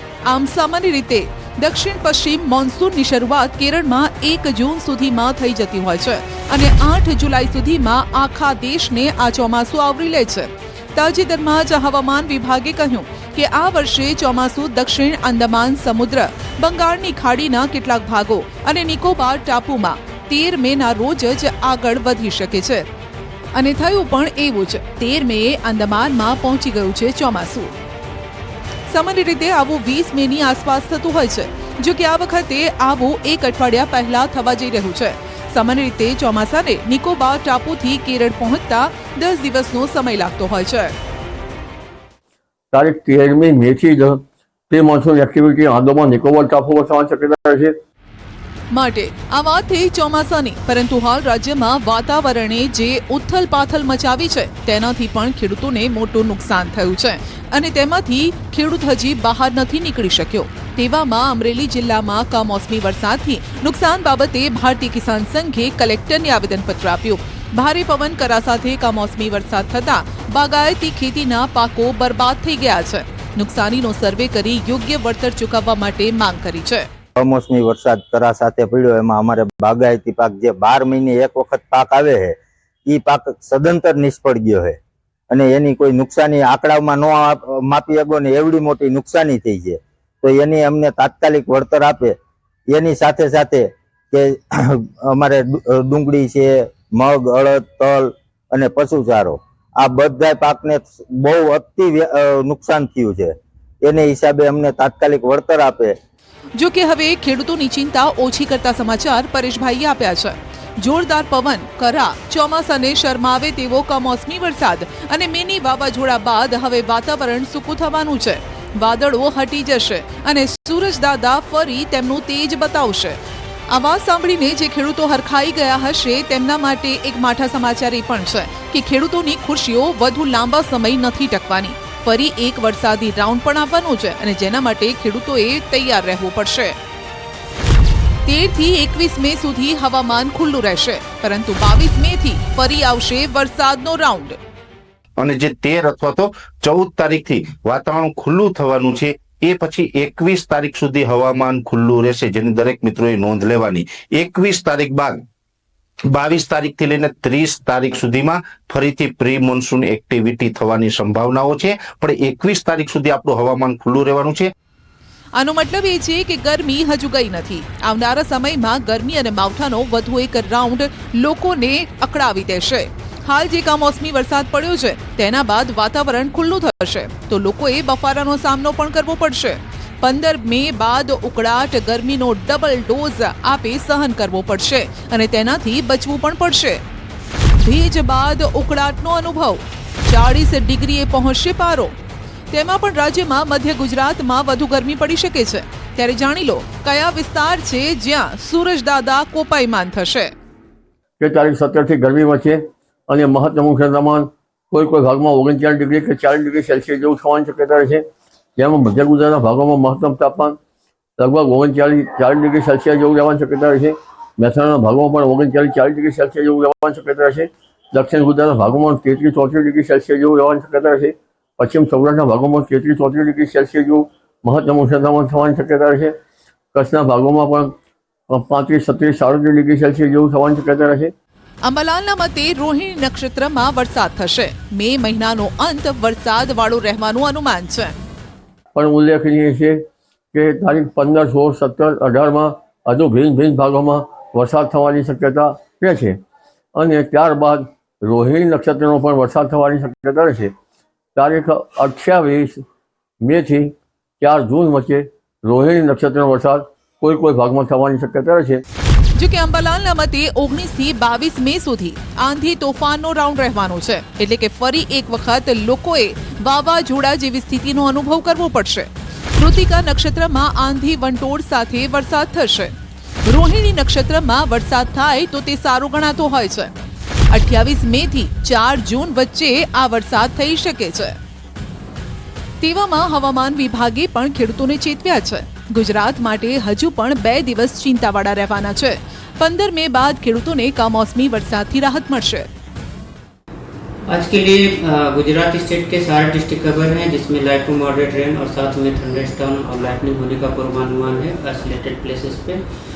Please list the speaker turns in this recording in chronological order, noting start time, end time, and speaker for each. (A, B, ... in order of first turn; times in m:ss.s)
0:00.3-0:22.9 A
0:23.5-0:27.8 A
0:28.9-0:41.0 A
0:42.7-0:47.8 B
0:48.7-1:16.9 A
1:17.2-1:24.8 C
1:25.3-1:32.2 C
1:32.7-1:46.0 C
1:46.6-2:16.8 A
2:18.3-2:24.4 A
2:25.2-2:35.2 D
2:36.1-2:44.5 D
2:45.4-3:06.8 A
3:07.6-3:12.0 A
3:12.5-3:20.3 A
3:21.2-3:28.0 B
3:28.6-3:30.6 B
3:31.2-3:46.2 B
3:46.7-3:47.7 B
3:48.3-3:51.1 B
3:51.6-3:58.0 A
3:58.7-4:06.2 B
4:06.8-4:10.5 B
4:11.2-4:12.6 B
4:13.2-4:18.6 B
4:19.2-4:36.7 A
4:37.3-4:41.2 A
4:42.6-4:52.5 A
4:54.1-5:02.6 E